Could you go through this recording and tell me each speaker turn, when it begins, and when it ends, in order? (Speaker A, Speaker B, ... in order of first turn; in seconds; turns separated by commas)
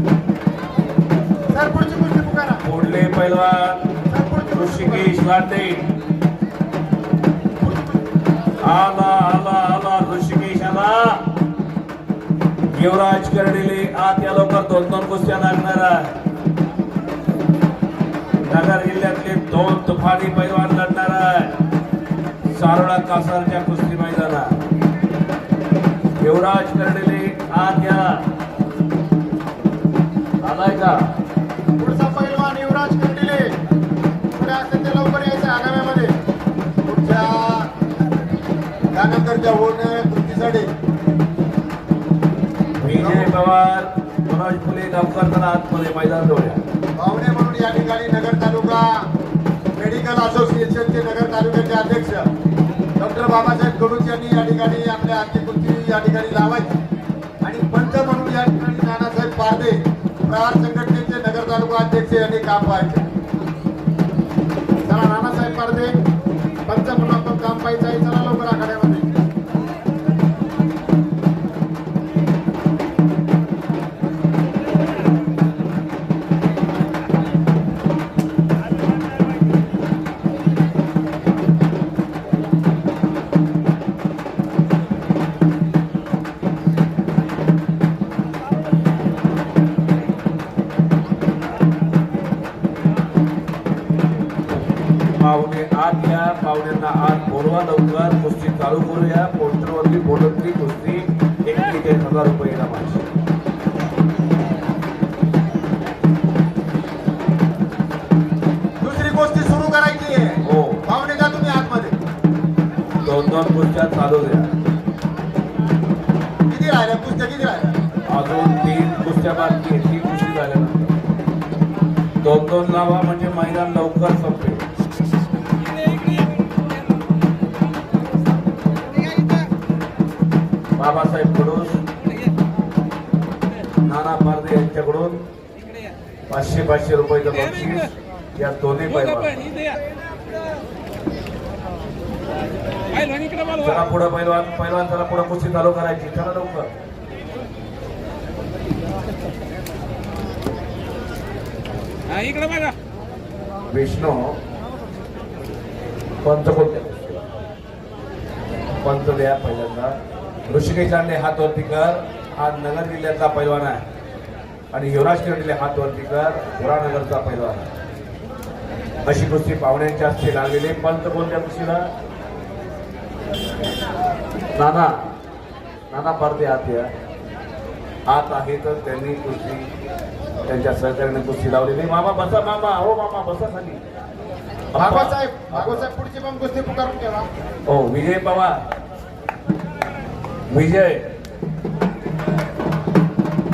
Speaker A: 1.5-2.6, Speaker B: 2.6-3.9, Speaker A: 4.1-5.1, Speaker B: 4.5-5.9, Speaker A: 7.6-8.0, Speaker B: 8.6-11.2, Speaker B: 12.7-16.1, Speaker B: 18.4-21.6, Speaker B: 22.5-24.6, Speaker B: 26.2-28.3, Speaker B: 30.4-31.0, Speaker A: 31.8-33.5, Speaker A: 34.3-36.2, Speaker A: 36.9-37.7, Speaker A: 38.9-40.7, Speaker B: 42.8-46.6, Speaker A: 42.9-43.3, Speaker A: 47.0-49.1, Speaker A: 49.8-52.3, Speaker A: 53.0-56.7, Speaker A: 57.4-63.1, Speaker A: 64.9-65.9, Speaker A: 66.7-69.1, Speaker B: 95.2-103.0, Speaker A: 108.8-111.9, Speaker B: 110.5-110.8, Speaker B: 113.0-114.5, Speaker A: 116.5-117.8, Speaker B: 118.1-121.0, Speaker B: 122.2-124.6, Speaker B: 130.8-131.8, Speaker B: 133.9-135.3, Speaker B: 136.3-139.5, Speaker B: 143.5-146.7, Speaker B: 153.7-154.4, Speaker B: 156.2-157.3, Speaker B: 158.8-159.9, Speaker B: 160.5-163.8, Speaker B: 164.7-167.7, Speaker B: 169.0-171.9, Speaker B: 174.6-175.0, Speaker B: 175.9-176.9, Speaker B: 178.1-179.7, Speaker B: 180.5-183.8, Speaker B: 184.7-185.9, Speaker A: 184.8-187.3, Speaker B: 187.7-188.6, Speaker B: 190.5-191.1